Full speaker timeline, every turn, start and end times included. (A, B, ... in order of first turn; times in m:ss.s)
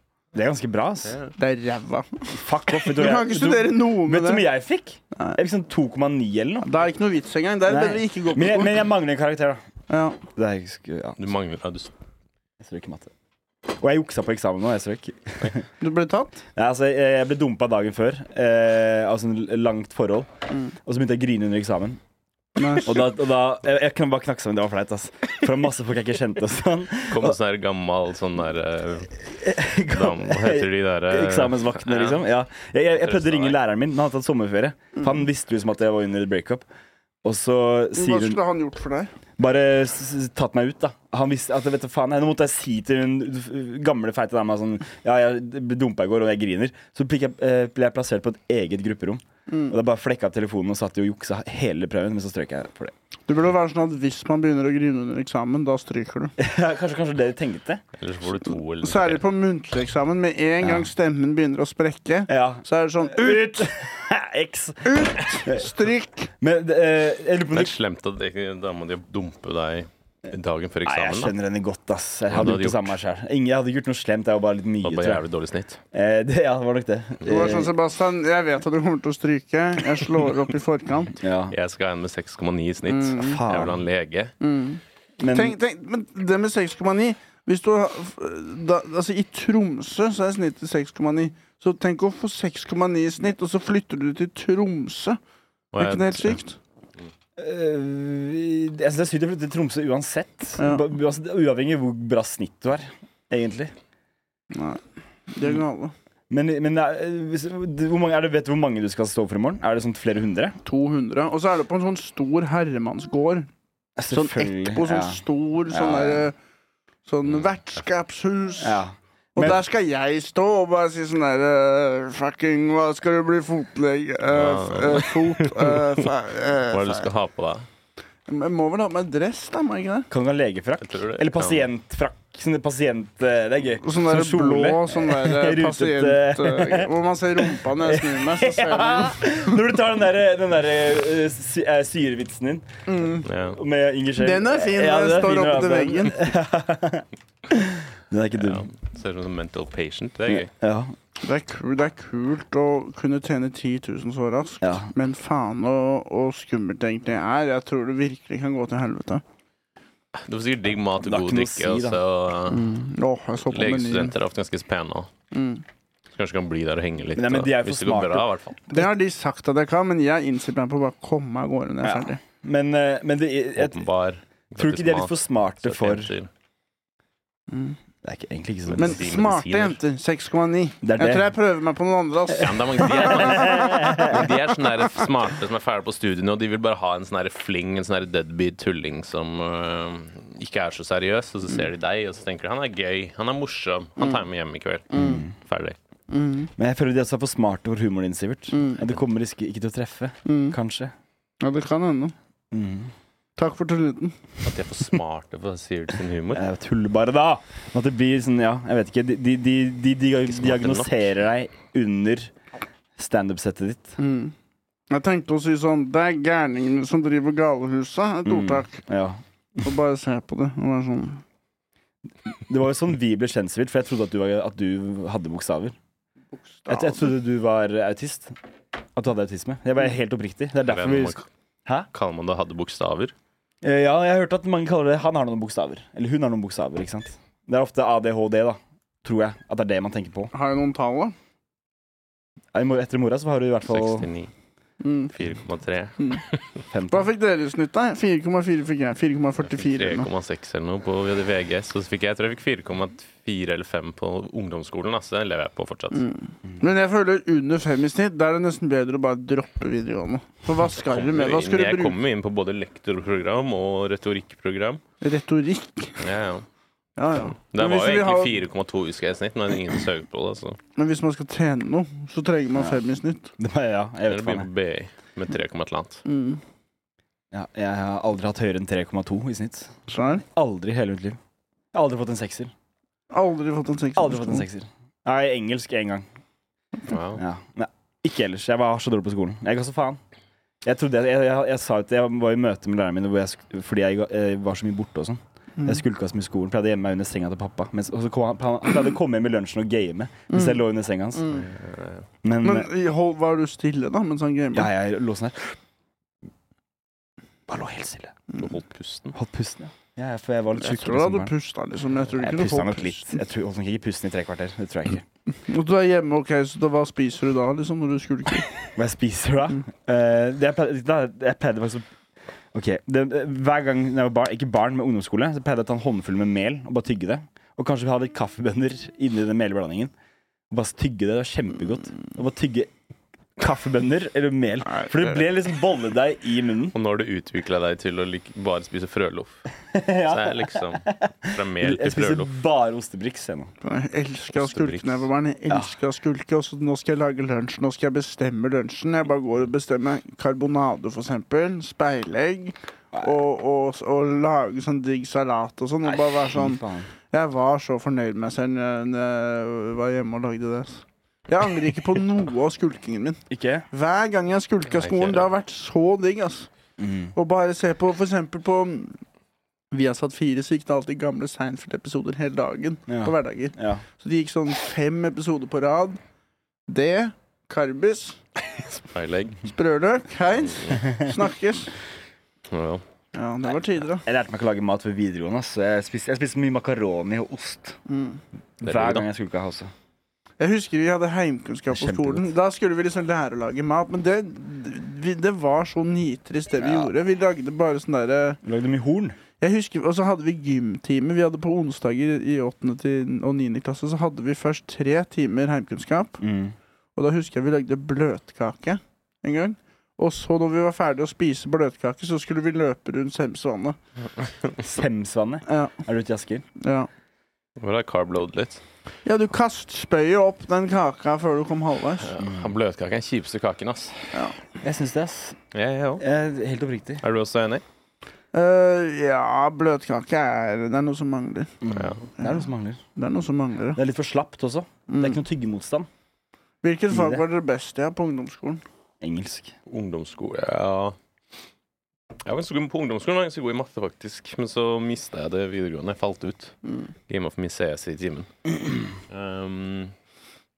0:00.3-0:01.2 A
0:01.0-0:01.3 B
0:01.4-0:04.5 C
0:02.3-0:06.7 A
0:05.1-0:05.4 C
0:06.6-0:08.9 C
0:07.7-0:09.6 A
0:09.9-0:10.2 C
0:10.4-0:11.2 A
0:11.2-0:11.9 B
0:12.6-0:13.1 A
0:13.8-0:15.6 A
0:15.8-0:16.4 C
0:16.6-0:20.3 A
0:20.8-0:22.0 A
0:22.6-0:23.0 C
0:22.8-0:27.4 A
0:27.1-0:29.2 B
0:29.2-0:36.6 A
0:29.9-0:32.2 B
0:33.0-0:33.6 B
0:37.2-0:38.4 A
0:37.9-0:39.1 C
0:39.4-0:52.9 A
0:49.5-0:49.7 C
0:53.3-0:56.3 C
0:56.4-0:57.8 A
0:58.0-0:59.2 B
0:58.8-1:03.7 C
1:00.6-1:00.9 A
1:02.3-1:05.7 A
1:04.8-1:06.3 C
1:06.4-1:07.7 A
1:07.5-1:11.3 B
1:10.8-1:15.2 A
1:12.3-1:13.0 B
1:14.8-1:15.8 B
1:15.9-1:17.7 A
1:17.2-1:21.1 C
1:21.2-1:21.5 A
1:21.5-1:24.3 B
1:22.9-1:23.4 C
1:23.2-1:23.7 A
1:24.4-1:35.2 C
1:25.2-1:25.6 A
1:35.7-1:36.4 B
1:35.8-1:36.6 C
1:37.4-1:43.7 A
1:40.6-1:40.9 C
1:44.5-1:45.9 C
1:46.3-1:50.6 A
1:50.6-1:53.5 C
1:54.0-1:56.3 A
1:54.1-1:56.3 C
1:57.0-1:58.8 C
1:58.6-1:59.6 A
1:59.3-2:07.1 C
2:04.3-2:06.1 B
2:06.7-2:07.7 B
2:08.3-2:10.1 C
2:10.1-2:22.7 A
2:10.8-2:11.7 B
2:13.8-2:19.6 C
2:22.9-2:23.2 C
2:23.2-2:23.6 B
2:23.5-2:28.7 A
2:24.2-2:26.2 C
2:28.3-2:30.5 B
2:30.3-2:30.9 A
2:31.2-2:39.2 C
2:34.6-2:34.9 A
2:40.1-2:42.6 B
2:41.0-2:42.0 A
2:42.5-2:44.1 C
2:43.5-2:45.1 B
2:45.3-2:45.6 C
2:46.1-2:48.6 B
2:47.2-2:48.2 A
2:48.7-2:52.2 C
2:51.8-2:53.8 A
2:53.6-2:56.3 B
2:54.6-2:56.1 A
2:57.5-2:57.8 C
2:58.0-2:59.0 A
2:58.6-2:59.8 B
2:58.8-3:03.6 C
3:00.8-3:01.3 A
3:02.4-3:15.8 B
3:02.8-3:04.3 A
3:14.9-3:15.2 C
3:14.9-3:15.3 A
3:16.1-3:16.5 C
3:16.6-3:20.9 A
3:18.5-3:18.8 C
3:20.2-3:20.6 C
3:21.4-3:22.1 C
3:22.5-3:22.9 A
3:23.4-3:24.2 C
3:24.4-3:26.4 B
3:26.3-3:32.3 A
3:30.3-3:30.9 B
3:33.0-3:34.0 A
3:34.0-3:34.3 C
3:34.9-3:38.8 C
3:38.2-3:39.2 A
3:39.6-3:41.2 C
3:42.3-3:45.8 A
3:46.3-3:47.1 C
3:46.7-3:48.4 A
3:49.0-3:51.9 A
3:50.6-3:51.2 B
3:51.9-3:53.1 B
3:53.6-4:00.3 A
4:00.3-4:01.1 C
4:02.5-4:04.1 A
4:03.6-4:04.3 B
4:04.8-4:05.1 C
4:05.1-4:06.6 B
4:06.7-4:07.1 A
4:06.9-4:10.1 C
4:09.4-4:16.0 B
4:15.9-4:22.0 C
4:20.8-4:24.8 B
4:25.0-4:26.0 C
4:26.0-4:26.4 B
4:27.0-4:28.4 C
4:27.4-4:30.6 B
4:30.8-4:33.3 C
4:33.4-4:34.5 A
4:34.1-4:36.0 B
4:36.0-4:36.4 C
4:37.3-4:39.7 A
4:39.9-4:40.2 C
4:40.2-4:41.2 A
4:41.7-4:42.5 A
4:43.1-4:44.5 C
4:44.0-4:46.1 A
4:46.9-4:47.2 B
4:47.2-4:50.0 A
4:50.6-5:01.4 A
4:55.6-4:55.8 C
5:00.3-5:00.6 C
5:01.2-5:01.4 C
5:01.3-5:02.0 B
5:02.2-5:02.7 A
5:02.4-5:04.7 C
5:04.5-5:05.6 A
5:07.5-5:08.1 A
5:08.4-5:09.1 B
5:09.1-5:11.3 A
5:10.6-5:13.2 C
5:12.2-5:15.0 A
5:15.4-5:18.6 C
5:18.8-5:21.8 A
5:22.5-5:29.9 A
5:30.5-5:32.7 A
5:33.4-5:36.7 A
5:34.7-5:35.2 C
5:36.7-5:39.4 B
5:39.7-5:43.5 A
5:40.0-5:42.3 B
5:43.6-6:06.5 C
5:44.3-5:45.1 B
5:55.8-5:56.9 A
6:03.3-6:03.6 A
6:04.7-6:05.3 B
6:06.8-6:07.1 A
6:07.1-6:09.0 C
6:09.7-6:16.0 C
6:12.9-6:13.8 A
6:16.7-6:18.2 C
6:18.5-6:19.4 B
6:19.4-6:21.7 C
6:20.5-6:20.8 B
6:22.5-6:22.8 B
6:23.1-6:24.0 C
6:24.0-6:27.8 A
6:27.9-6:28.2 C
6:28.6-6:29.7 A
6:28.6-6:29.0 B
6:30.4-6:38.4 C
6:31.7-6:32.3 A
6:36.6-6:36.9 A
6:38.4-6:39.2 A
6:39.4-6:46.2 C
6:46.2-6:46.6 A
6:47.0-6:53.8 C
6:54.6-6:56.4 A
6:55.5-6:55.8 C
6:56.6-6:56.9 C
6:57.6-6:58.6 B
6:59.0-7:02.1 C
7:02.0-7:04.1 B
7:02.2-7:02.5 A
7:04.1-7:04.4 C
7:04.6-7:05.4 A
7:05.5-7:06.0 B
7:06.0-7:07.0 A
7:07.0-7:07.6 B
7:08.3-7:11.5 C
7:11.6-7:12.8 A
7:11.7-7:12.1 B
7:12.2-7:13.8 C
7:13.7-7:15.9 A
7:14.9-7:15.2 C
7:16.6-7:18.6 C
7:16.9-7:17.2 A
7:19.0-7:19.5 A
7:19.7-7:21.0 B
7:22.2-7:26.5 B
7:27.1-7:28.3 B
7:29.1-7:29.9 B